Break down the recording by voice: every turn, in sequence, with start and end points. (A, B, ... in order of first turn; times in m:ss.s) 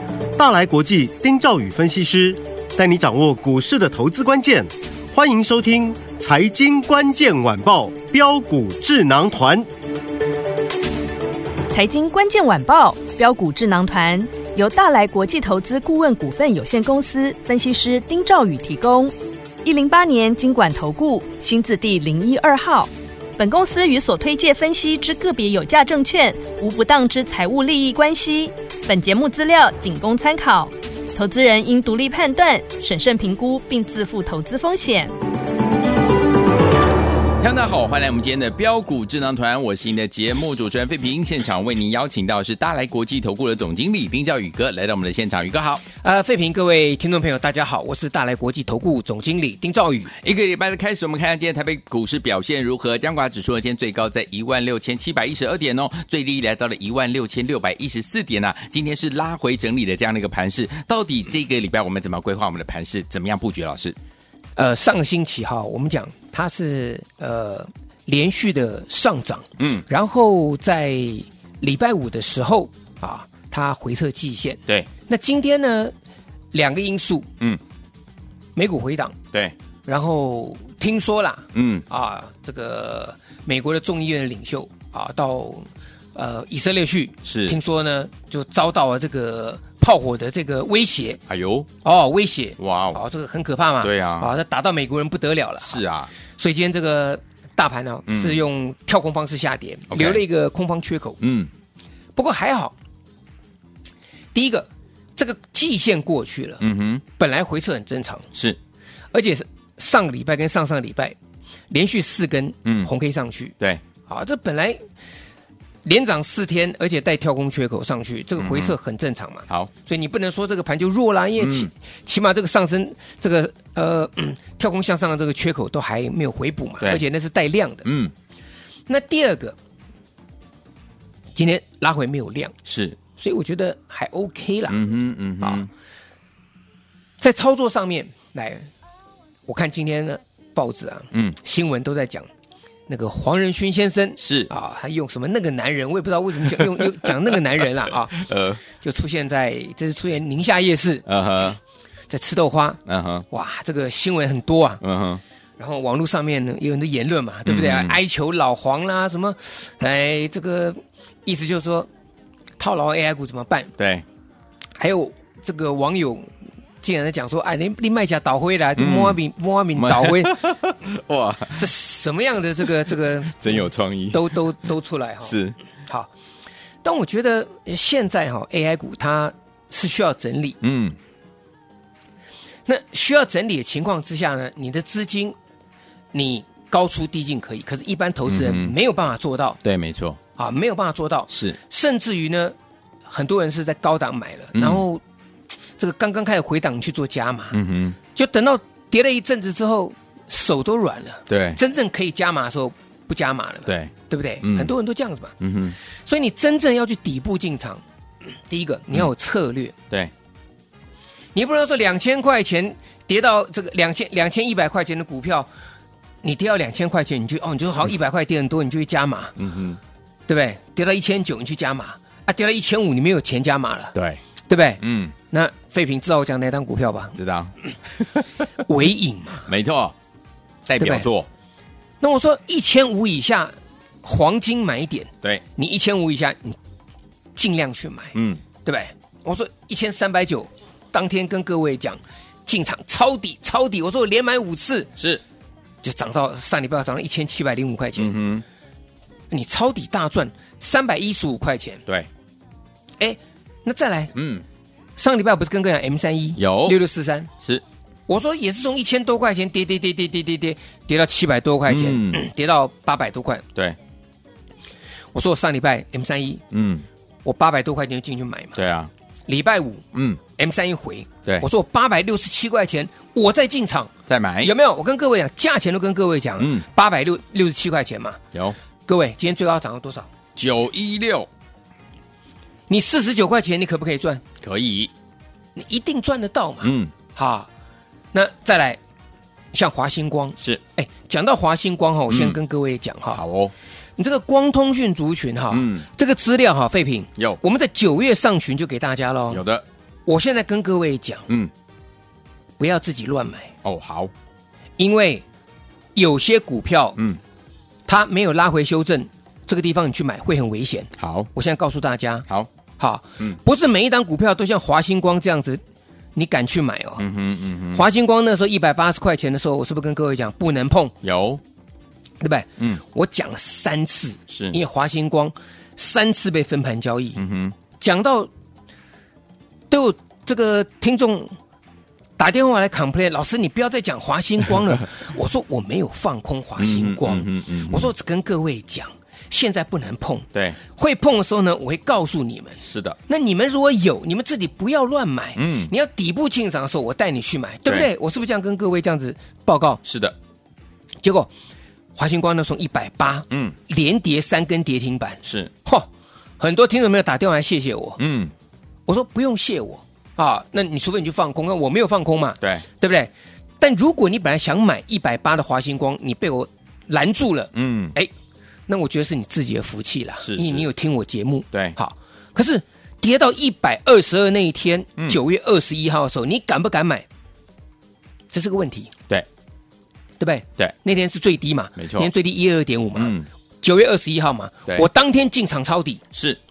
0:00.4-0:09.7 A
0:11.7-0:35.1 B
0:37.4-0:45.8 C
0:46.0-0:50.1 D
0:50.1-1:04.0 C
1:04.6-1:15.9 D
1:09.6-1:09.8 C
1:16.5-1:17.3 D
1:18.6-1:19.2 D
1:19.9-1:31.2 D
1:21.5-1:21.9 C
1:27.2-1:27.6 C
1:31.3-1:31.7 C
1:31.8-1:35.8 D
1:32.6-1:33.0 C
1:33.8-1:34.3 C
1:35.6-1:36.1 C
1:36.4-1:41.2 D
1:38.1-1:38.4 C
1:39.9-1:40.2 C
1:41.2-1:41.5 C
1:42.2-1:42.8 D
1:44.3-1:46.6 D
1:46.6-1:47.0 C
1:47.2-1:48.3 D
1:48.3-1:48.6 C
1:49.1-1:51.2 D
1:51.7-1:53.6 D
1:52.6-1:52.9 C
1:54.1-1:54.8 D
1:55.8-2:07.8 D
1:58.4-1:58.8 C
2:01.4-2:01.7 C
2:07.8-2:08.1 C
2:08.9-2:09.6 D
2:11.4-2:12.6 D
2:12.6-2:13.0 C
2:13.2-2:14.8 D
2:14.7-2:15.7 C
2:15.4-2:15.7 D
2:17.2-2:18.7 D
2:19.5-2:22.3 D
2:21.1-2:21.4 C
2:22.9-2:31.0 D
2:24.2-2:24.5 C
2:26.5-2:27.1 C
2:28.1-2:28.6 C
2:31.1-2:31.6 C
2:32.1-2:34.8 D
2:32.9-2:33.3 C
2:34.8-2:35.2 C
2:35.6-2:41.9 D
2:37.5-2:38.0 C
2:42.6-2:43.7 D
2:43.8-2:44.0 C
2:44.8-2:46.3 D
2:46.8-2:50.6 D
2:48.8-2:49.2 C
2:49.8-2:51.7 C
2:51.6-2:56.1 D
2:53.2-2:54.5 C
2:55.2-2:55.6 C
2:56.8-3:00.6 D
3:00.6-3:01.0 C
3:02.7-3:05.4 D
3:06.1-3:09.6 D
3:08.3-3:08.8 C
3:09.6-3:10.2 C
3:10.4-3:12.6 D
3:11.3-3:11.6 C
3:13.1-3:15.0 D
3:14.5-3:14.8 C
3:15.8-3:17.6 D
3:17.5-3:18.0 C
3:18.1-3:25.3 D
3:21.3-3:21.6 C
3:23.7-3:24.7 C
3:25.4-3:25.8 C
3:26.1-3:29.8 D
3:31.3-3:35.5 D
3:36.2-3:39.4 D
3:39.4-3:39.8 C
3:40.3-3:43.9 D
3:43.9-3:44.2 C
3:44.5-3:47.2 D
3:44.8-3:45.2 C
3:47.2-3:48.3 C
3:48.6-3:49.5 D
3:49.5-3:50.0 C
3:50.7-3:51.3 C
3:50.8-3:51.1 D
3:52.0-3:56.6 D
3:57.4-4:04.9 D
3:58.2-3:58.4 C
4:05.0-4:05.2 C
4:05.8-4:08.2 D
4:08.0-4:08.4 C
4:09.3-4:11.8 D
4:13.0-4:14.1 D
4:14.1-4:14.4 C
4:15.0-4:17.3 D
4:16.4-4:16.8 C
4:17.4-4:17.6 C
4:18.1-4:23.4 D
4:21.7-4:22.3 C
4:25.1-4:26.4 D
4:26.5-4:26.9 C
4:27.2-4:28.6 D
4:28.6-4:28.9 C
4:29.3-4:29.8 D
4:29.9-4:30.2 C
4:30.4-4:38.2 D
4:34.1-4:34.5 C
4:36.4-4:36.7 C
4:38.9-4:40.1 D
4:40.4-4:41.3 C
4:42.7-4:44.2 D
4:44.4-4:44.9 C
4:45.6-4:47.5 D
4:46.6-4:46.9 C
4:48.1-4:48.8 D
4:49.5-4:53.2 D
4:52.1-4:52.4 C
4:53.1-4:53.5 C
4:54.0-4:59.4 D
4:55.5-4:55.9 C
4:59.3-4:59.6 C
5:00.1-5:01.3 D
5:02.6-5:03.5 D
5:03.6-5:04.1 C
5:04.8-5:05.2 D
5:06.0-5:07.0 D
5:07.9-5:12.3 D
5:11.0-5:11.3 C
5:12.8-5:15.6 D
5:16.2-5:17.0 D
5:17.0-5:17.8 C
5:17.7-5:21.0 D
5:21.0-5:21.4 C
5:22.2-5:27.2 D
5:24.3-5:24.6 C
5:27.2-5:27.6 C
5:27.8-5:28.3 D
5:29.7-5:31.3 D
5:32.2-5:49.8 D
5:36.6-5:37.9 C
5:40.3-5:40.6 C
5:42.6-5:43.0 C
5:45.4-5:45.7 C
5:49.8-5:50.2 C
5:51.0-5:51.3 D
5:52.0-5:55.9 D
5:53.3-5:53.6 C
5:55.2-5:55.5 C
5:56.4-5:58.0 D
5:58.0-5:58.3 C
5:58.9-6:08.1 D
6:02.4-6:02.7 C
6:07.5-6:08.0 C
6:08.7-6:17.1 D
6:10.2-6:10.7 C
6:11.5-6:11.8 C
6:18.3-6:18.9 D
6:20.2-6:26.0 D
6:21.8-6:22.1 C
6:23.0-6:23.3 C
6:26.1-6:26.4 C